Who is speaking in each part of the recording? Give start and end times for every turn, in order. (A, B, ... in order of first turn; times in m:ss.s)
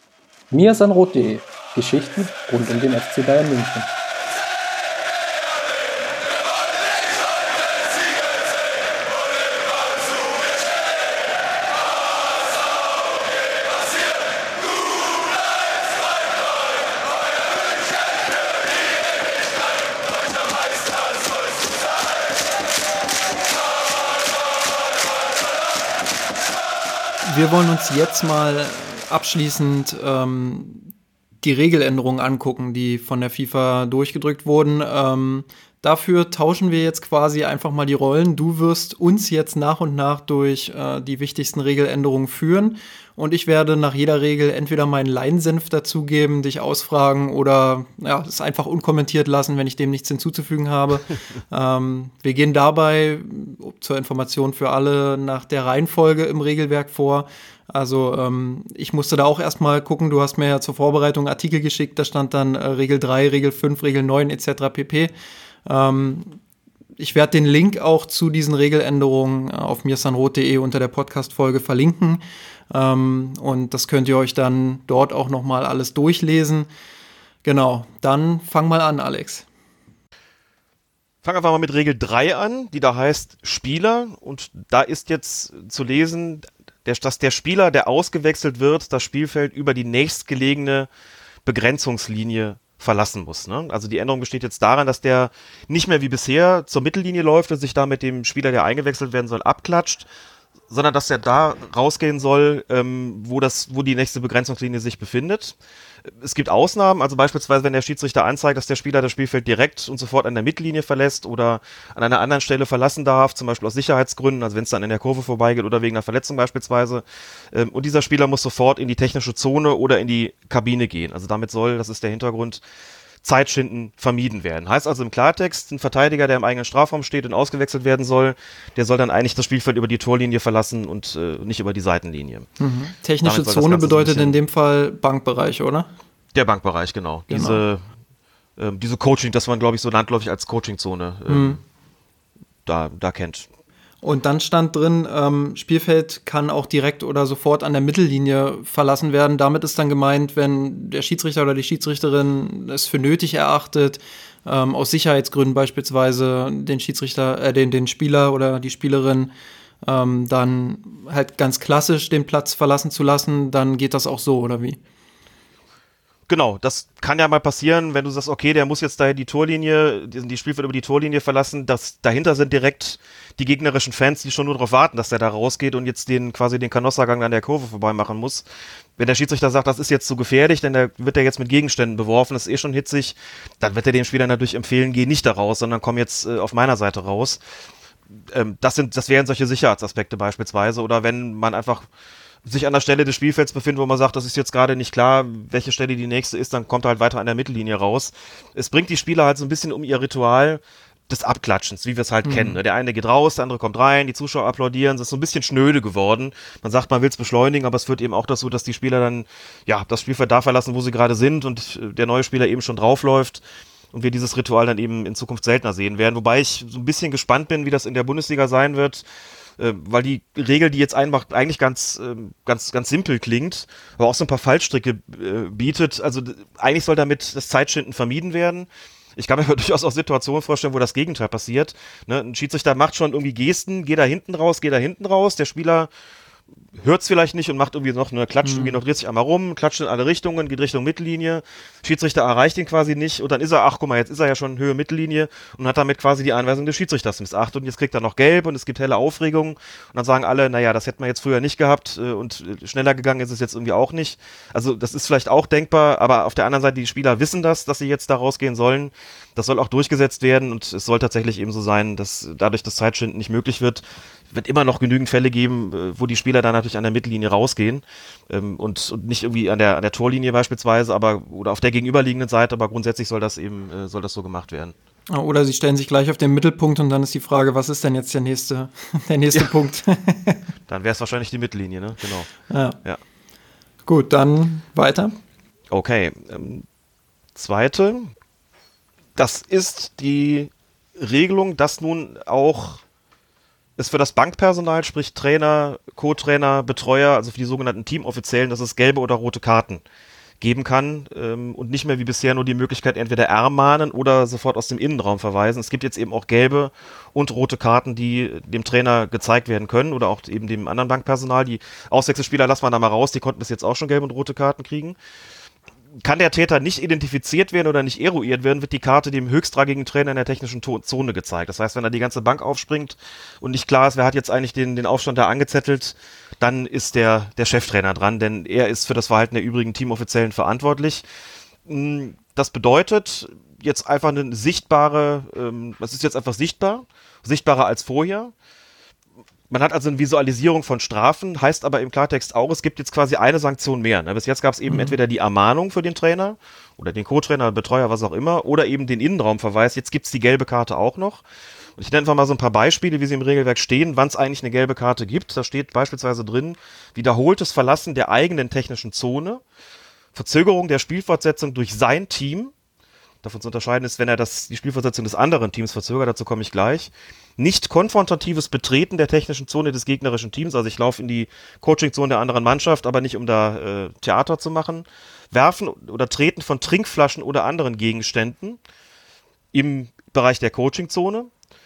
0:00.5-0:03.9 A
0:27.2-0:30.9 B
0:31.4-1:05.1 B
1:05.6-1:06.4 B
1:07.0-1:16.7 B
1:17.4-1:19.4 B
1:21.2-1:30.9 C
1:31.4-1:40.1 C
1:40.7-1:45.6 C
1:46.2-2:02.6 C
2:03.2-2:12.5 C
2:12.6-2:15.9 B
2:13.2-2:14.4 C
2:16.3-2:17.8 C
2:17.3-2:17.6 B
2:18.6-2:21.6 C
2:21.3-2:21.6 B
2:22.6-2:23.5 C
2:24.0-2:39.3 B
2:39.8-2:44.8 B
2:46.3-2:58.4 C
2:59.0-3:07.4 C
3:08.3-3:11.9 C
3:12.4-3:39.0 C
3:22.2-3:22.6 B
3:39.6-3:55.9 C
3:56.8-4:34.7 C
3:58.4-3:58.8 B
4:35.1-4:40.4 B
4:40.7-4:42.3 C
4:42.5-4:42.8 B
4:43.8-4:45.1 B
4:45.7-4:46.6 C
4:47.3-4:48.1 C
4:49.2-4:52.8 C
4:53.8-4:59.8 C
5:00.4-5:15.0 C
5:16.0-5:31.0 C
5:31.6-5:38.3 C
5:39.5-5:51.2 C
5:44.7-5:45.0 B
5:51.8-5:59.4 C
6:00.1-6:02.5 C
6:03.2-6:18.6 C
6:19.5-6:21.3 C